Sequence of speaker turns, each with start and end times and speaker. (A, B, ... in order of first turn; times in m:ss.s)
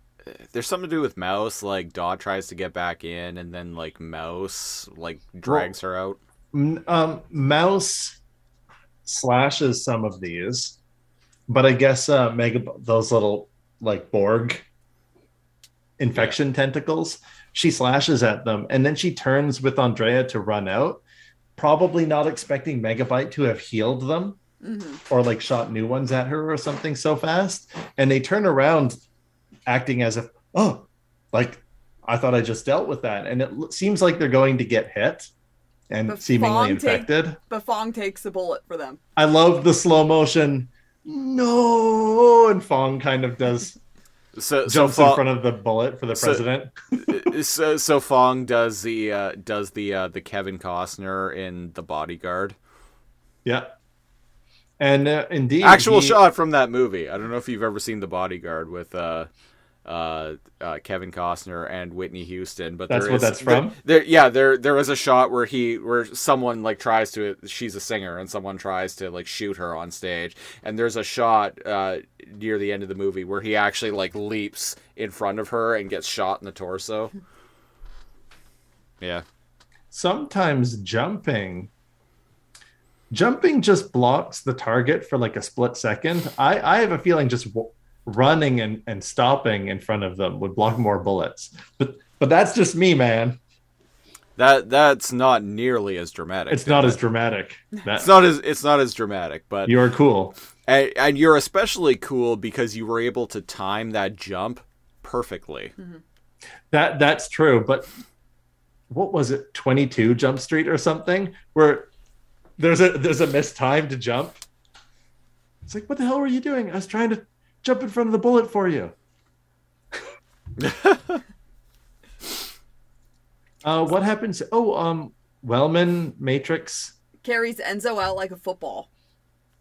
0:00.3-0:06.2 A
0:05.5-0:05.7 B
0:06.5-0:08.2 B
0:09.0-0:10.8 B
0:11.5-0:14.6 B
0:16.0-0:21.0 B
0:21.6-0:24.4 B
0:24.6-0:25.0 C
0:25.1-0:29.0 B
0:29.7-0:35.3 B
0:35.9-0:37.4 B
0:36.1-0:39.0 C
0:39.2-0:43.8 B
0:44.4-0:45.2 A
0:44.7-0:47.2 B
0:46.2-0:46.4 A
0:47.0-0:52.6 A
0:53.4-0:53.7 B
0:54.8-0:56.2 B
0:55.6-0:59.3 A
0:59.8-1:17.1 A
1:02.9-1:03.8 B
1:19.9-1:21.7 B
1:23.1-1:33.4 B
1:34.4-1:37.0 A
1:36.5-1:38.1 B
1:38.0-1:39.8 A
1:39.7-1:40.4 B
1:40.7-1:45.7 A
1:46.7-1:47.9 B
1:48.9-1:51.9 B
1:52.6-1:54.4 B
1:55.7-1:58.9 B
2:00.6-2:01.2 A
2:03.6-2:06.9 B
2:07.2-2:08.9 C